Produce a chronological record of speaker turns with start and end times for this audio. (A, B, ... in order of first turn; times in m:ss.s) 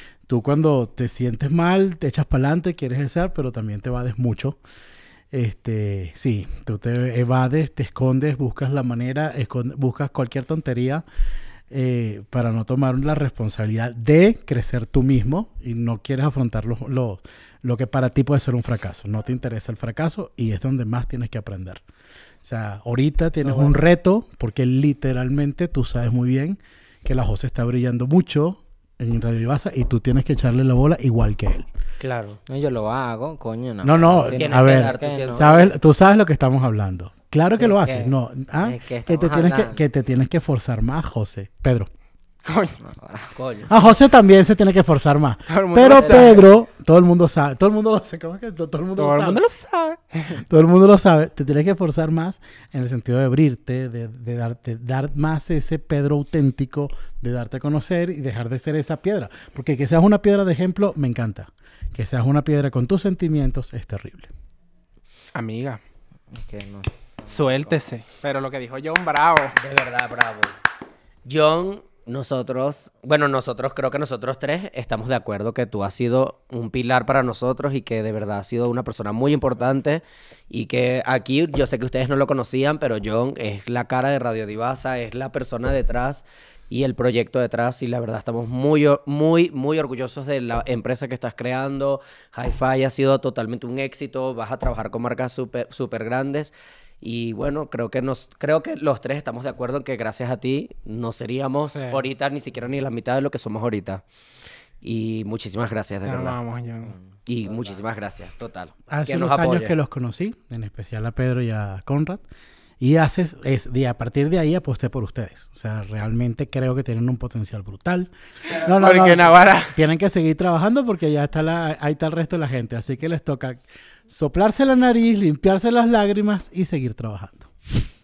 0:00.3-0:04.6 A
0:05.3-0:11.0 A
0:11.7-0:21.8 A
0:22.4-0:31.7 A
0:32.0-0:32.4 B
0:32.5-0:35.7 C
0:33.8-0:41.9 A
0:34.3-0:35.7 B
0:37.6-0:38.1 C
0:38.6-0:39.8 C
0:42.4-0:42.8 D
0:42.8-0:43.3 C
0:43.4-0:43.7 B
0:43.7-0:49.4 A
0:45.5-0:46.4 D
0:49.0-0:50.4 D
0:50.3-1:04.3 A
1:05.3-1:05.8 D
1:06.3-1:07.8 C
1:07.3-1:09.5 D
1:09.6-1:10.5 B
1:11.2-1:44.0 B
1:41.7-1:42.0 D
1:44.8-1:46.4 B
1:46.0-1:46.9 D
1:47.3-1:49.7 B
1:48.9-1:52.2 A
1:52.8-2:07.5 A
1:58.5-1:59.8 D